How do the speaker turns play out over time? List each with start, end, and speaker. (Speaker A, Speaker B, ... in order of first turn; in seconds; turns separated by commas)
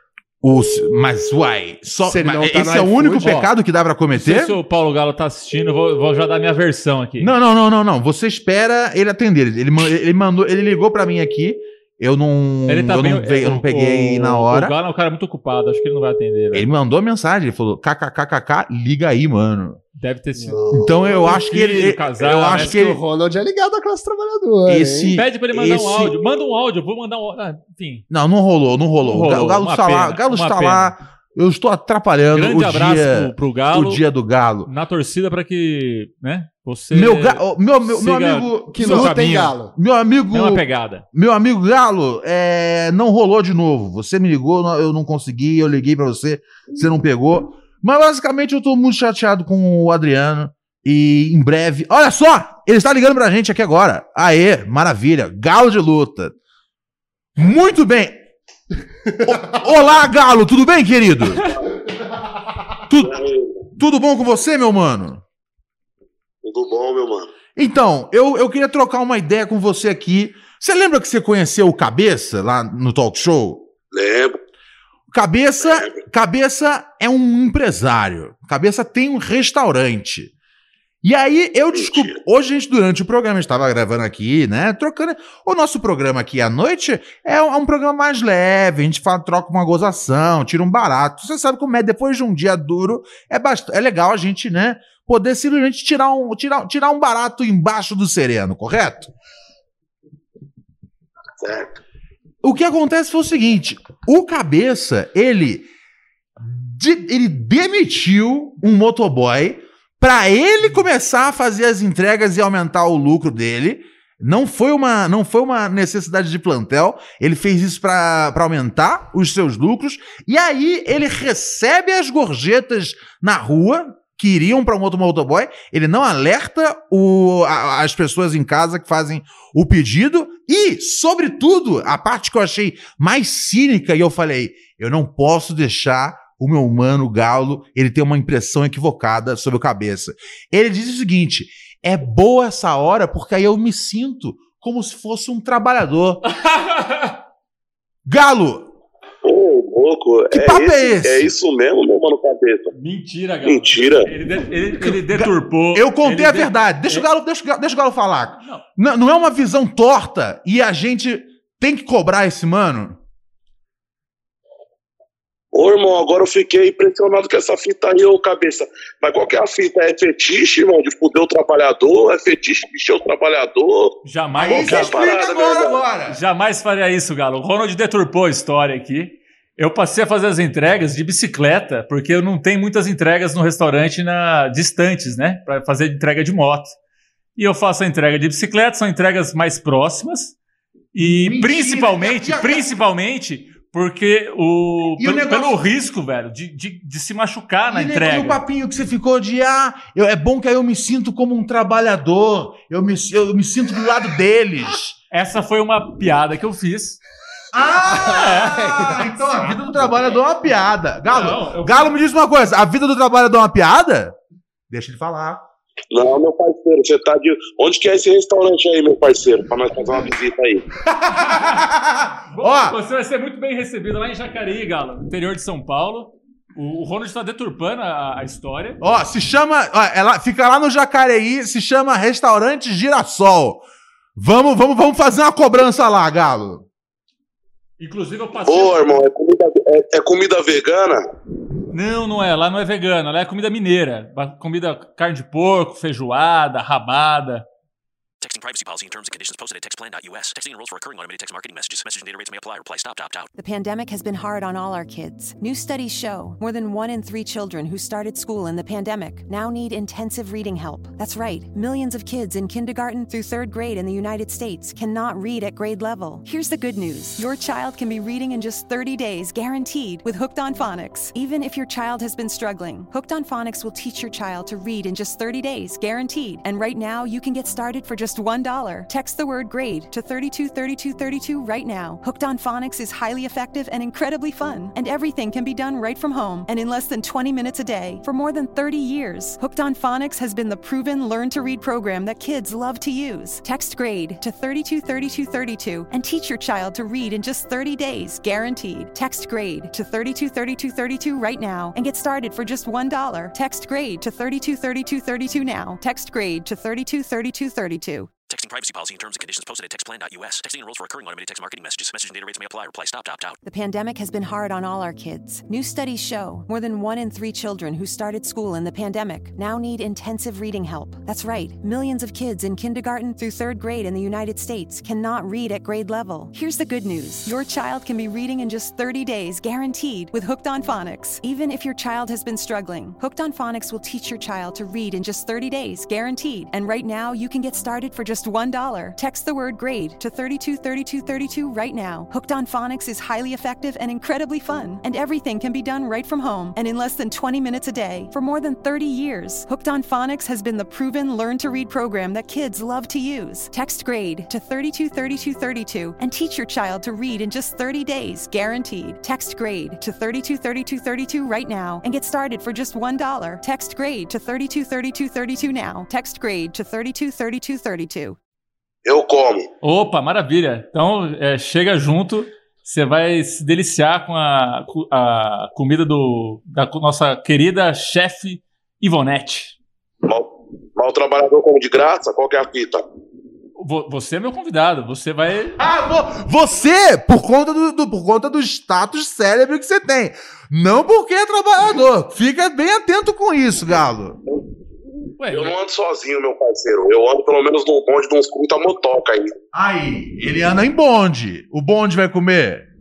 Speaker A: 0.4-4.5, Speaker B: 2.0-3.4, Speaker C: 3.2-3.5, Speaker C: 4.1-7.3, Speaker A: 7.2-14.7, Speaker C: 12.7-16.7, Speaker A: 16.5-19.8, Speaker C: 19.9-22.8, Speaker B: 20.4-21.3, Speaker A: 20.7-23.0, Speaker B: 22.5-25.1, Speaker A: 24.7-26.1, Speaker C: 25.1-28.0, Speaker A: 28.1-34.7, Speaker C: 29.0-30.9, Speaker C: 32.3-34.0, Speaker C: 34.6-39.5, Speaker A: 36.9-56.3, Speaker B: 38.7-39.7, Speaker C: 40.3-41.0, Speaker A: 57.4-58.2, Speaker A: 59.2-61.5, Speaker A: 62.9-63.2, Speaker D: 63.0-63.6, Speaker A: 63.8-65.2, Speaker D: 66.4-67.3, Speaker A: 67.5-73.7, Speaker D: 73.9-74.4, Speaker A: 75.1-80.3, Speaker D: 75.6-75.9, Speaker A: 81.0-99.1, Speaker D: 81.7-82.2, Speaker D: 101.4-101.8, Speaker A: 102.4-105.7, Speaker A: 106.4-146.2, Speaker C: 146.2-147.2, Speaker A: 148.0-148.7, Speaker D: 149.2-152.7, Speaker A: 150.3-151.3, Speaker C: 152.7-157.1, Speaker D: 153.4-154.1, Speaker A: 154.8-163.0, Speaker D: 165.5-173.9, Speaker C: 174.0-175.1, Speaker A: 174.3-176.2, Speaker D: 174.6-175.8, Speaker C: 176.1-186.7, Speaker C: 187.3-190.3, Speaker C: 190.9-198.4, Speaker A: 191.0-192.7, Speaker A: 195.0-195.6, Speaker A: 197.7-204.9, Speaker C: 205.1-207.0, Speaker A: 207.5-214.1, Speaker B: 207.8-209.8, Speaker C: 211.1-211.9, Speaker A: 214.7-215.4, Speaker D: 215.9-220.7, Speaker A: 220.9-222.8, Speaker C: 221.2-221.6, Speaker C: 222.3-228.8, Speaker A: 228.8-233.6, Speaker A: 234.2-236.6, Speaker C: 237.8-238.8, Speaker D: 238.4-241.0, Speaker C: 241.7-247.4, Speaker E: 248.2-253.3, Speaker F: 253.4-308.1, Speaker E: 308.3-313.4, Speaker F: 313.4-368.2, Speaker D: 368.8-369.5, Speaker C: 369.6-379.5, Speaker D: 380.0-382.8, Speaker C: 383.6-385.6, Speaker A: 385.6-394.2, Speaker C: 395.2-395.5, Speaker D: 395.3-399.3, Speaker A: 399.5-402.6